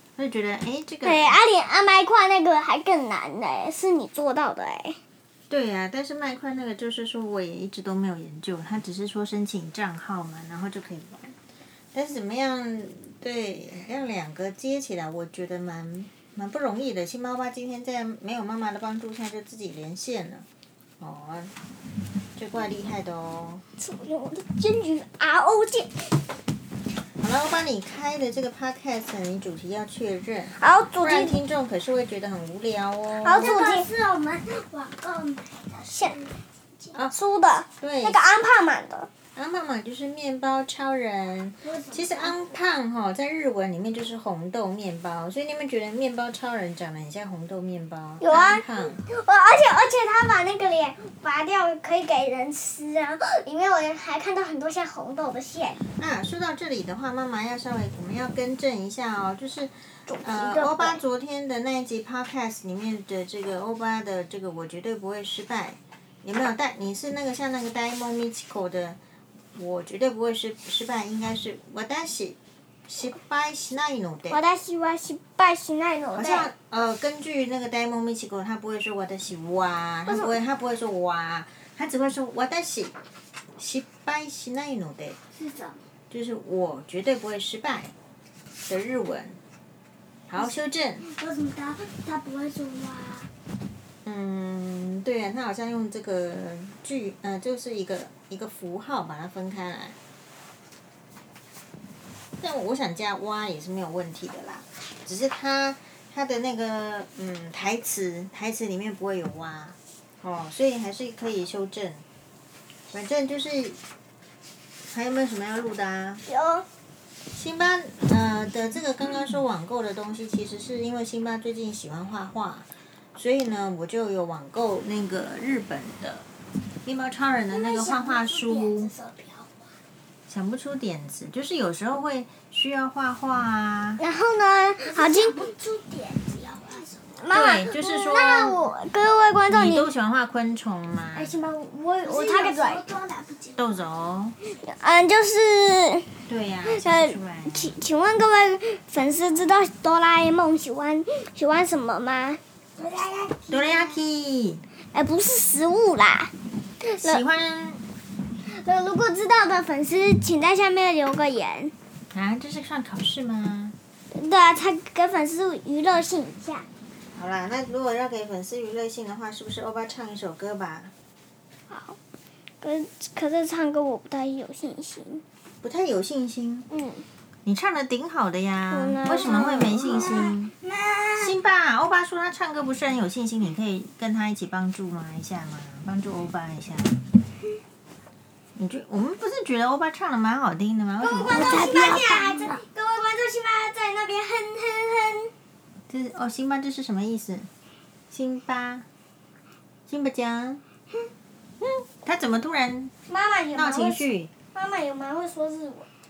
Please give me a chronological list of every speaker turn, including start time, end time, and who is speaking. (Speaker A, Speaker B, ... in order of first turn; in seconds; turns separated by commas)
Speaker A: 0.2-1.4, Speaker B: 1.0-5.0, Speaker A: 5.5-11.3, Speaker A: 11.9-20.4, Speaker A: 21.0-21.5, Speaker A: 22.4-23.6, Speaker B: 23.8-26.1, Speaker A: 27.2-33.6, Speaker B: 30.5-31.4, Speaker B: 33.2-33.9, Speaker C: 33.4-36.3, Speaker B: 35.9-36.2, Speaker B: 37.1-39.1, Speaker A: 37.8-38.2, Speaker A: 39.3-49.0, Speaker C: 41.6-42.3, Speaker B: 48.2-55.8, Speaker A: 56.0-69.0, Speaker B: 60.1-61.0, Speaker A: 69.5-74.4, Speaker B: 74.3-76.5, Speaker A: 76.1-82.9, Speaker B: 80.1-80.3, Speaker A: 83.6-85.2, Speaker C: 85.4-85.7, Speaker A: 86.1-87.9, Speaker A: 88.7-89.4, Speaker A: 90.3-91.1, Speaker C: 91.0-93.3, Speaker A: 94.0-100.0, Speaker A: 102.4-112.0, Speaker A: 112.9-113.8, Speaker A: 114.9-116.2, Speaker B: 116.2-116.7, Speaker A: 117.3-126.2, Speaker A: 126.8-128.9, Speaker C: 127.5-129.5, Speaker A: 130.3-134.0, Speaker B: 134.0-135.5, Speaker C: 134.8-137.1, Speaker B: 137.2-139.9, Speaker A: 137.3-138.6, Speaker A: 139.5-141.3, Speaker C: 141.1-143.7, Speaker B: 142.0-142.8, Speaker A: 143.6-144.3, Speaker B: 144.6-146.1, Speaker A: 146.3-147.7, Speaker B: 146.6-152.4, Speaker C: 152.8-153.9, Speaker A: 153.5-154.6, Speaker B: 154.9-157.2, Speaker A: 157.0-157.8, Speaker B: 158.5-161.7, Speaker A: 162.1-163.8, Speaker B: 164.1-166.7, Speaker A: 167.1-170.9, Speaker B: 171.7-172.0, Speaker B: 172.6-175.2, Speaker A: 175.6-176.7, Speaker B: 176.7-177.1, Speaker A: 177.4-180.5, Speaker B: 178.7-180.3, Speaker C: 180.0-181.3, Speaker A: 181.2-187.0, Speaker A: 188.6-191.6, Speaker B: 191.0-195.3, Speaker C: 191.3-192.6, Speaker A: 195.9-197.5, Speaker A: 198.1-198.8, Speaker A: 199.9-200.6, Speaker A: 201.9-202.9, Speaker B: 203.1-205.9, Speaker A: 203.5-204.3